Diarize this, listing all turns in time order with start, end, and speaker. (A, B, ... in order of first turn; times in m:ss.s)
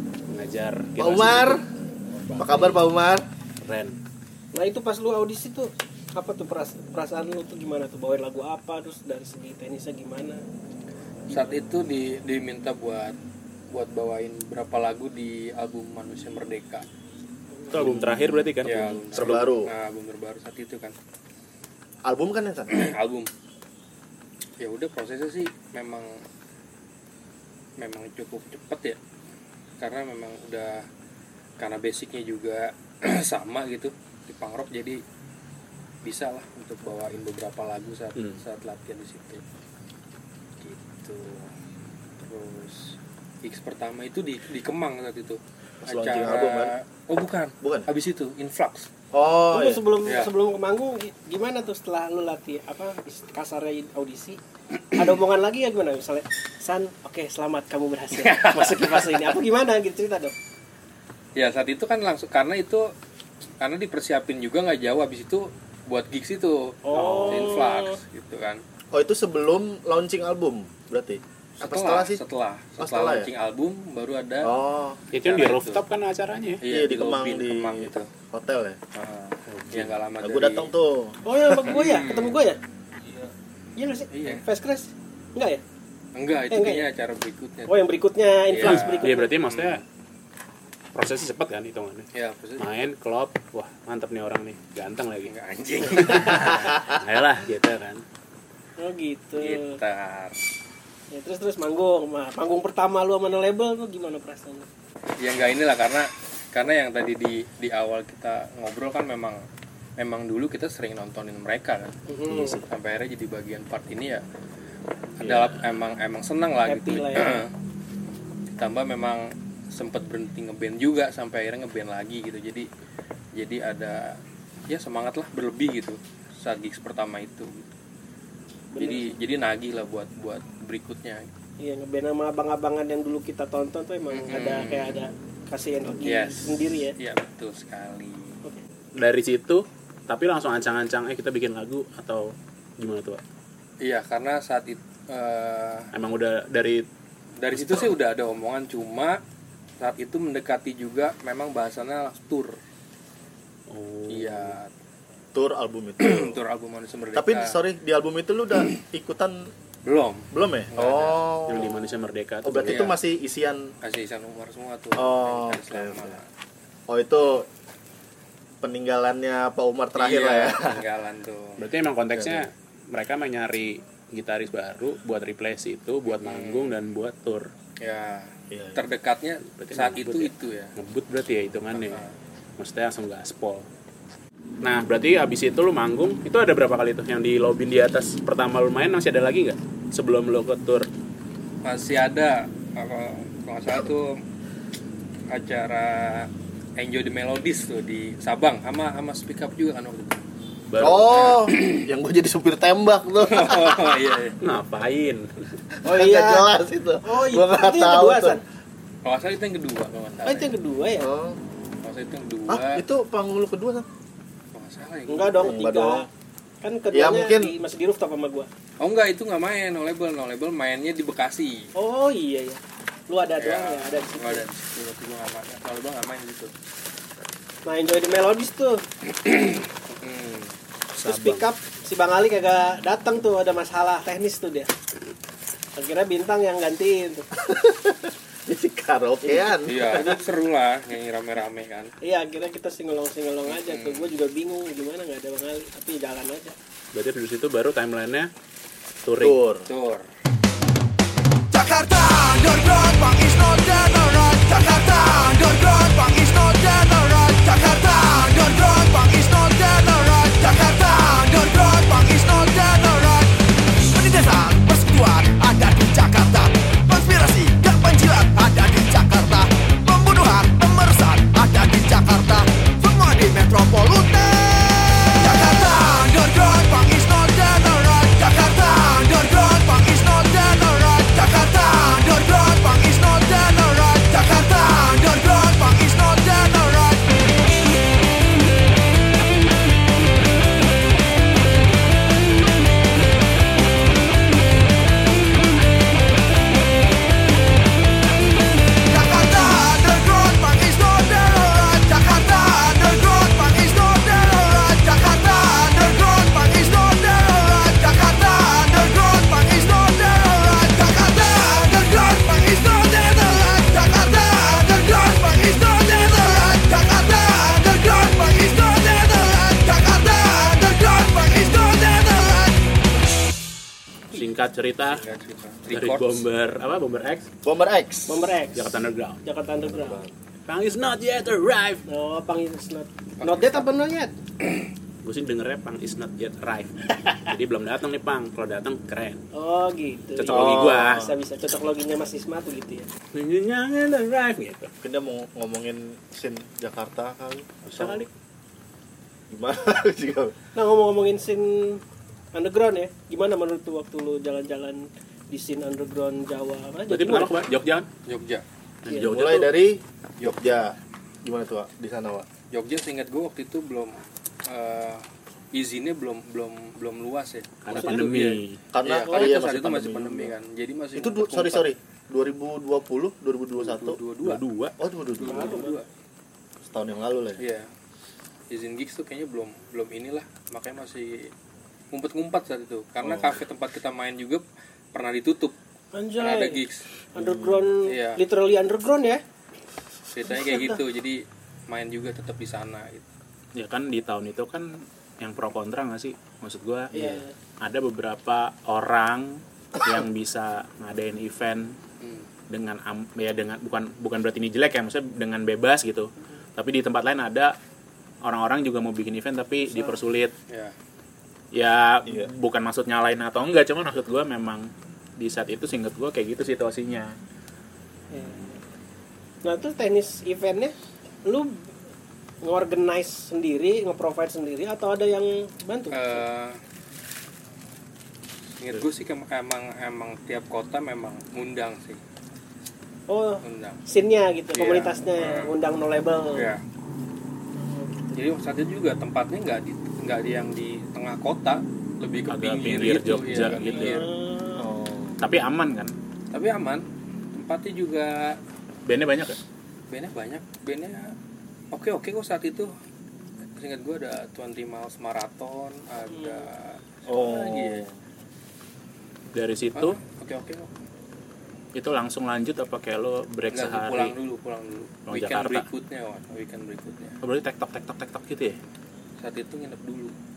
0:00.3-0:01.6 A
0:01.0-0:01.6 B
0:02.2-0:02.8 A
0:02.4-0:03.2 B
0:03.6-0:04.0 A
0:04.5-0:10.4 C
0:11.3-0:13.2 D
0:13.7-0:16.9 D
0:17.7-0:19.6 A
0:17.8-0:18.5 B
0:18.6-0:21.0 D
0:19.1-0:19.7 B
0:22.1-0:22.8 B
0:22.7-0:23.3 D
0:24.6-0:26.2 D
0:27.8-0:29.0 D
0:29.8-0:30.9 D
0:31.6-0:35.0 D
0:36.0-0:39.4 D
0:38.2-0:38.4 A
0:40.6-0:41.5 D
0:42.2-0:48.9 D
0:45.8-0:46.8 B
0:47.6-0:47.9 B
0:49.1-0:49.8 B
0:49.5-0:54.4 C
0:50.1-0:50.3 D
0:55.0-1:00.3 C
0:58.1-0:59.3 D
1:01.4-1:02.9 D
1:03.6-1:08.6 D
1:06.8-1:08.0 C
1:06.9-1:07.6 A
1:08.9-1:12.2 B
1:11.6-1:14.6 D
1:12.8-1:13.3 B
1:14.4-1:15.0 B
1:15.1-1:16.6 A
1:15.2-1:15.8 D
1:16.6-1:18.1 D
1:16.7-1:18.8 B
1:19.0-1:20.7 D
1:19.5-1:19.9 A
1:20.2-1:21.2 B
1:21.2-1:22.6 C
1:21.5-1:22.4 D
1:23.8-1:25.6 C
1:24.1-1:24.4 D
1:26.2-1:27.8 D
1:26.5-1:26.9 C
1:27.7-1:29.3 C
1:28.5-1:29.8 D
1:28.6-1:29.8 A
1:31.0-1:32.1 A
1:32.2-1:32.6 D
1:32.6-1:35.3 A
1:35.3-1:36.8 D
1:35.9-1:38.0 A
1:38.8-1:39.8 C
1:39.4-1:40.4 D
1:41.1-1:44.7 C
1:45.2-1:49.4 D
1:50.0-1:52.0 D
1:52.1-1:52.6 C
1:52.3-1:52.6 A
1:52.7-1:54.2 D
1:55.2-1:55.7 A
1:55.2-1:57.5 D
1:56.7-1:57.4 C
1:58.6-2:02.7 D
2:03.4-2:07.7 D
2:08.7-2:09.1 C
2:08.8-2:11.3 D
2:11.6-2:17.0 C
2:14.1-2:15.0 D
2:16.0-2:18.4 D
2:19.0-2:23.2 A
2:23.8-2:25.9 D
2:25.9-2:26.9 A
2:27.4-2:29.2 D
2:27.5-2:27.9 A
2:29.8-2:32.6 D
2:33.7-2:34.6 A
2:34.1-2:34.7 D
2:35.4-2:36.4 B
2:36.0-2:37.6 D
2:37.2-2:39.5 B
2:39.8-2:41.3 D
2:40.3-2:41.8 B
2:41.5-2:42.8 A
2:42.4-2:43.7 B
2:42.6-2:43.0 D
2:43.8-2:46.3 D
2:45.0-2:46.2 B
2:46.9-2:47.5 B
2:48.6-2:50.8 B
2:50.0-2:51.6 D
2:51.6-2:57.5 A
2:52.2-2:52.5 B
2:56.1-2:56.7 D
2:57.8-3:00.7 D
2:58.5-2:58.8 B
2:59.5-3:02.0 A
3:01.7-3:02.1 D
3:02.6-3:03.7 A
3:04.6-3:10.9 A
3:11.6-3:14.2 D
3:15.3-3:20.2 D
3:20.7-3:21.4 A
3:20.8-3:24.0 B
3:21.2-3:21.8 D
3:23.3-3:24.4 D
3:24.4-3:25.3 A
3:25.8-3:28.4 B
3:25.9-3:26.5 C
3:27.0-3:28.4 C
3:29.0-3:30.5 D
3:30.3-3:31.1 C
3:31.0-3:31.4 B
3:31.8-3:32.8 D
3:32.5-3:33.8 B
3:34.6-3:35.5 D
3:35.1-3:36.1 C
3:35.4-3:36.1 B
3:36.6-3:38.5 C
3:36.9-3:37.5 B
3:38.8-3:41.7 D
3:41.8-3:44.5 C
3:43.4-3:46.5 D
3:47.6-3:48.8 C
3:49.1-3:50.5 D
3:51.0-3:54.7 C
3:51.0-3:51.4 A
3:55.8-3:57.3 C
3:57.4-4:00.2 B
3:59.7-4:01.9 D
4:02.0-4:06.6 C
4:03.5-4:04.1 D
4:06.9-4:08.3 A
4:09.0-4:09.4 A
4:09.2-4:09.7 B
4:09.7-4:10.1 D
4:11.7-4:12.1 E
4:12.8-4:14.3 E
4:15.5-4:17.9 E
4:18.4-4:18.9 E
4:24.2-4:24.5 E
4:25.1-4:26.5 E
4:28.0-4:28.4 E
4:30.1-4:31.7 E
4:32.9-4:34.0 E
4:35.3-4:46.5 E
4:59.0-5:22.5 E
5:24.1-5:25.0 A
5:24.8-5:26.2 D
5:25.7-5:27.3 A
5:27.4-5:28.2 B
5:28.1-5:30.0 C
5:28.5-5:29.2 A
5:29.6-5:30.1 B
5:30.5-5:31.8 A
5:31.9-5:34.1 C
5:33.2-5:33.7 D
5:35.0-5:39.2 A
5:39.3-5:42.9 C
5:40.2-5:41.1 A
5:40.3-5:41.1 B
5:43.1-5:44.7 A
5:44.8-5:48.1 B
5:47.6-5:48.1 A
5:49.3-5:50.4 B
5:50.6-5:51.8 C
5:52.3-5:57.3 C
5:56.9-5:57.9 A
5:58.1-5:58.4 D
5:58.8-5:59.5 A
5:58.9-6:02.3 B
6:02.5-6:11.7 D
6:07.6-6:08.6 A
6:08.7-6:10.4 B
6:09.1-6:09.4 C
6:11.0-6:14.0 B
6:13.6-6:14.4 D
6:14.2-6:14.8 A
6:14.8-6:15.6 B
6:15.2-6:15.9 D
6:15.2-6:15.8 C
6:16.6-6:17.4 B
6:17.4-6:17.7 D
6:18.5-6:21.3 D
6:21.9-6:25.6 D
6:23.0-6:23.4 B
6:25.9-6:26.6 C
6:26.2-6:26.8 D
6:27.2-6:27.7 B
6:27.2-6:29.2 C
6:27.9-6:28.2 D
6:30.1-6:33.1 D
6:30.5-6:30.8 C
6:33.6-6:41.8 A
6:36.9-6:37.3 C
6:42.0-6:42.3 D
6:42.5-6:47.6 A
6:48.2-6:50.4 A
6:49.6-6:50.0 C
6:50.5-6:50.8 D
6:51.5-6:57.1 A
6:58.1-6:58.6 C
6:59.4-7:01.7 C
7:02.4-7:06.2 C
7:05.9-7:06.6 D
7:08.6-7:12.0 D
7:13.1-7:16.5 C
7:13.4-7:13.8 D
7:14.6-7:15.5 D
7:16.4-7:16.6 D
7:17.6-7:18.2 C
7:18.2-7:24.1 D
7:22.3-7:24.0 A
7:23.6-7:24.7 C
7:24.6-7:25.2 B
7:25.2-7:26.0 A
7:26.3-7:28.4 D
7:28.8-7:29.4 A
7:29.9-7:31.1 D
7:31.7-7:32.7 D
7:33.6-7:37.9 D
7:36.1-7:36.5 C
7:37.1-7:37.9 B
7:39.3-7:40.0 A
7:39.8-7:40.7 D
7:41.8-7:44.2 A
7:43.5-7:47.2 D
7:45.1-7:45.7 A
7:47.2-7:48.6 A
7:49.2-7:50.1 D